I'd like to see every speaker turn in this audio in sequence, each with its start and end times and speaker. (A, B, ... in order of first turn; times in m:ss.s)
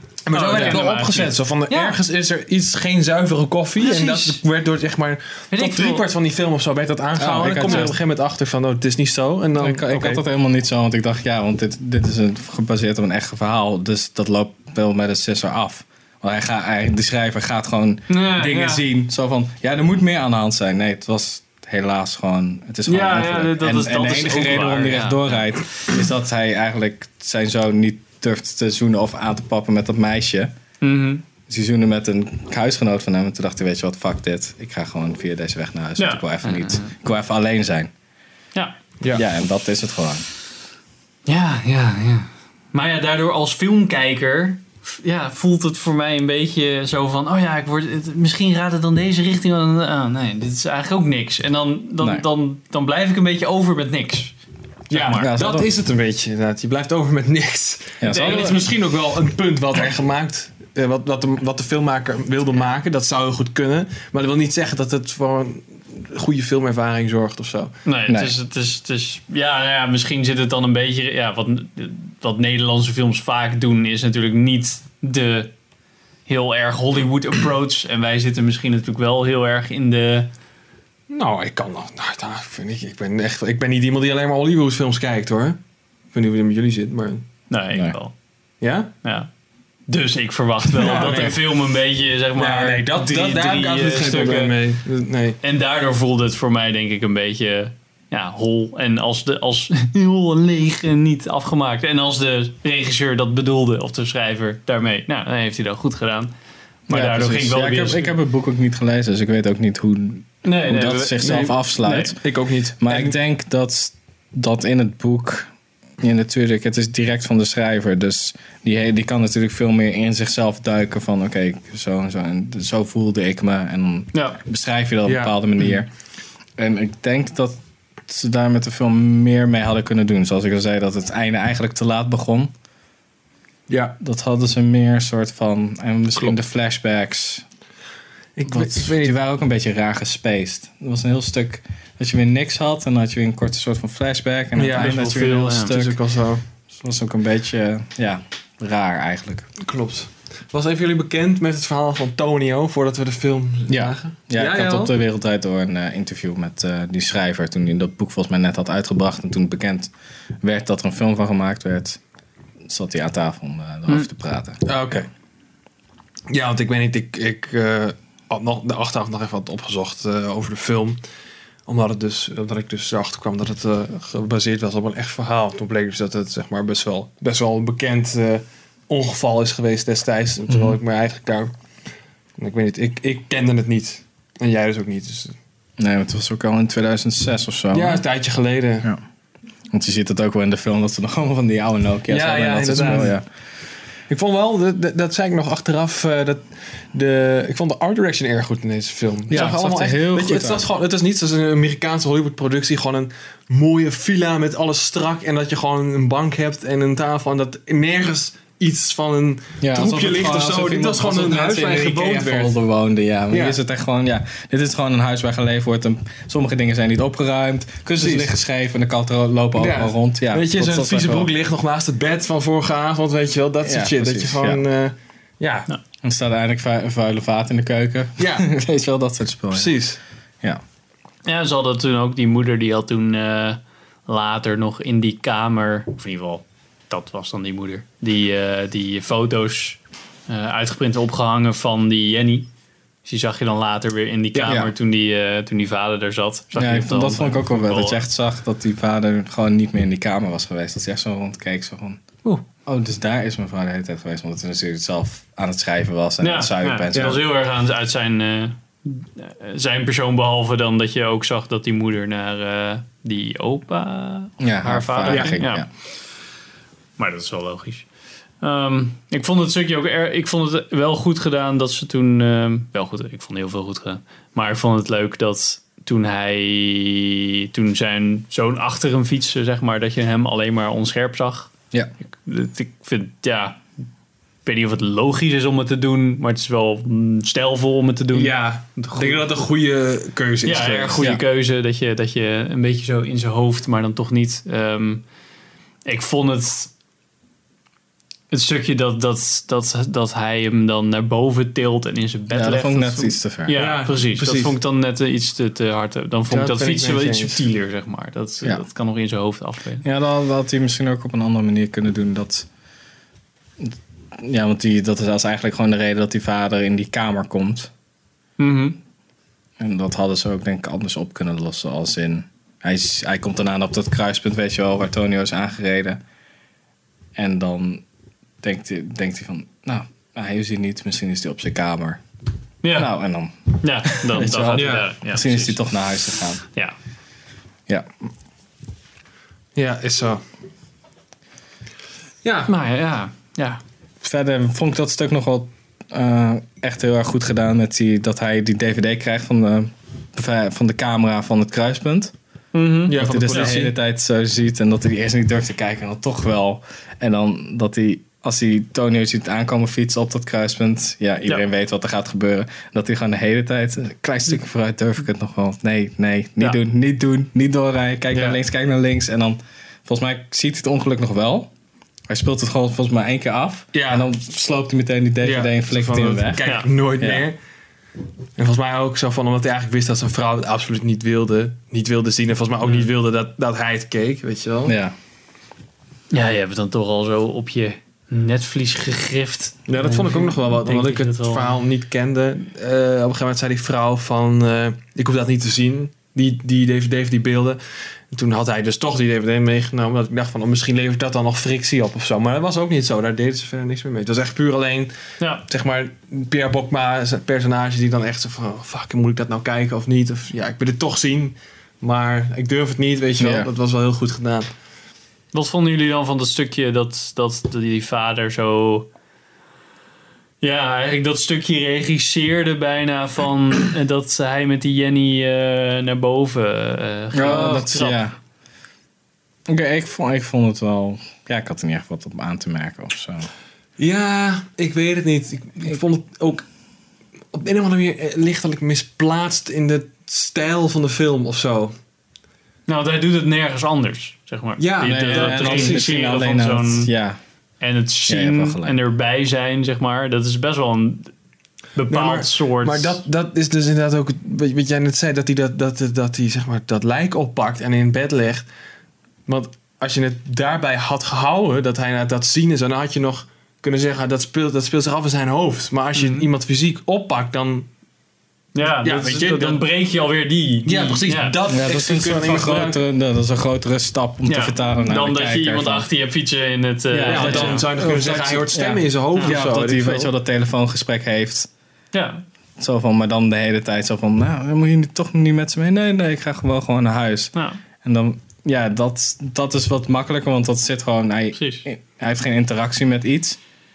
0:00.2-0:10.2 A
0:00.3-0:02.0 B
0:03.8-0:04.4 B
0:05.5-0:06.0 B
0:07.2-0:07.9 C
0:09.6-0:30.5 C
0:18.1-0:18.8 B
0:22.8-0:25.4 B
0:30.8-0:31.2 B
0:31.5-0:37.9 C
0:36.0-0:36.9 B
0:39.1-0:40.3 C
0:41.2-0:54.3 B
0:54.9-0:55.4 B
0:54.9-1:07.7 A
0:55.1-0:55.7 C
0:58.0-0:58.6 C
0:58.0-0:58.7 B
1:07.8-1:15.5 B
1:08.1-1:08.3 C
1:16.2-1:20.3 B
1:21.1-1:25.6 A
1:26.1-1:27.2 A
1:27.5-1:28.1 B
1:28.6-1:28.9 A
1:29.0-1:29.3 B
1:29.9-1:34.5 B
1:30.7-1:31.6 A
1:32.3-1:35.4 A
1:35.4-1:46.3 B
1:46.9-1:48.1 B
1:46.9-1:52.2 C
1:50.4-1:52.2 B
1:52.2-1:53.2 A
1:52.8-1:55.5 C
1:56.0-2:05.9 C
2:04.1-2:04.4 B
2:05.0-2:05.4 A
2:06.6-2:12.5 C
2:13.7-2:14.0 A
2:14.0-2:17.4 C
2:18.4-2:19.2 A
2:18.5-2:26.0 C
2:24.5-2:26.4 A
2:24.8-2:25.7 B
2:26.7-2:29.5 C
2:29.6-2:34.9 A
2:33.7-2:39.9 C
2:40.4-2:42.0 C
2:42.7-2:44.6 C
2:44.6-2:45.1 A
2:46.3-2:51.0 A
2:51.7-3:01.5 A
3:00.5-3:00.8 C
3:02.4-3:05.3 A
3:05.8-3:08.0 C
3:07.7-3:08.9 A
3:09.7-3:13.2 C
3:12.1-3:13.2 A
3:14.1-3:16.4 A
3:16.9-3:32.6 A
3:19.3-3:20.6 C
3:29.6-3:41.3 C
3:33.3-3:33.6 A
3:38.0-3:38.3 A
3:39.6-3:45.7 A
3:43.6-3:44.6 C
3:46.0-3:49.7 C
3:48.2-3:48.4 A
3:49.5-3:50.0 A
3:51.2-4:02.5 B
4:03.0-4:08.0 B
4:04.3-4:04.6 A
4:06.5-4:12.0 C
4:12.6-4:17.2 C
4:16.2-4:25.6 B
4:16.9-4:17.2 A
4:24.4-4:25.7 C
4:25.0-4:25.4 A
4:27.0-4:27.8 B
4:28.4-4:41.5 B
4:42.2-4:43.6 B
4:44.4-4:49.2 B
4:48.1-4:51.1 A
4:50.4-4:55.0 B
4:51.0-4:51.2 C
4:55.8-4:56.7 B
4:58.3-5:09.8 B
5:02.3-5:03.6 C
5:03.5-5:04.6 A
5:06.3-5:07.4 A
5:09.8-5:12.5 C
5:13.6-5:17.7 C
5:18.4-5:18.8 B
5:19.6-5:26.0 C
5:27.2-5:27.8 C
5:28.4-5:32.0 C
5:32.6-5:32.9 B
5:32.7-5:36.4 C
5:33.6-5:35.6 B
5:34.5-5:34.9 A
5:39.6-5:40.2 A
5:42.2-5:42.5 A
5:42.5-5:43.6 B
5:44.0-5:52.1 C
5:52.5-5:53.6 B
5:52.9-5:53.7 A
5:52.9-6:11.5 C
6:08.1-6:08.4 A
6:12.1-6:16.4 C
6:13.7-6:14.0 A
6:15.2-6:17.4 A
6:17.0-6:17.2 C
6:18.4-6:24.8 A
6:24.6-6:24.9 C
6:26.1-6:31.5 B
6:29.7-6:37.6 A
6:38.1-6:44.9 A
6:45.2-6:45.4 B
6:45.5-6:54.5 A
6:53.2-6:53.5 C
6:55.3-6:58.9 B
7:00.4-7:08.0 B
7:07.1-7:08.2 C
7:07.2-7:07.6 A
7:09.5-7:13.2 C
7:13.8-7:16.4 A
7:17.3-7:21.7 A
7:22.7-7:26.9 B
7:24.6-7:25.9 A
7:24.8-7:27.2 C
7:27.6-7:31.1 B
7:28.1-7:28.8 C
7:31.7-7:33.0 B
7:31.9-7:38.4 A
7:39.3-7:47.7 A
7:45.9-7:46.3 B
7:48.5-7:51.4 B
7:48.8-7:49.6 A
7:50.6-7:52.8 A
7:51.5-7:55.9 C
7:54.2-7:57.7 B
7:56.9-8:01.5 C
7:57.0-8:00.1 A
8:01.9-8:02.2 B
8:02.6-8:13.4 C
8:07.3-8:07.6 B
8:11.3-8:11.6 B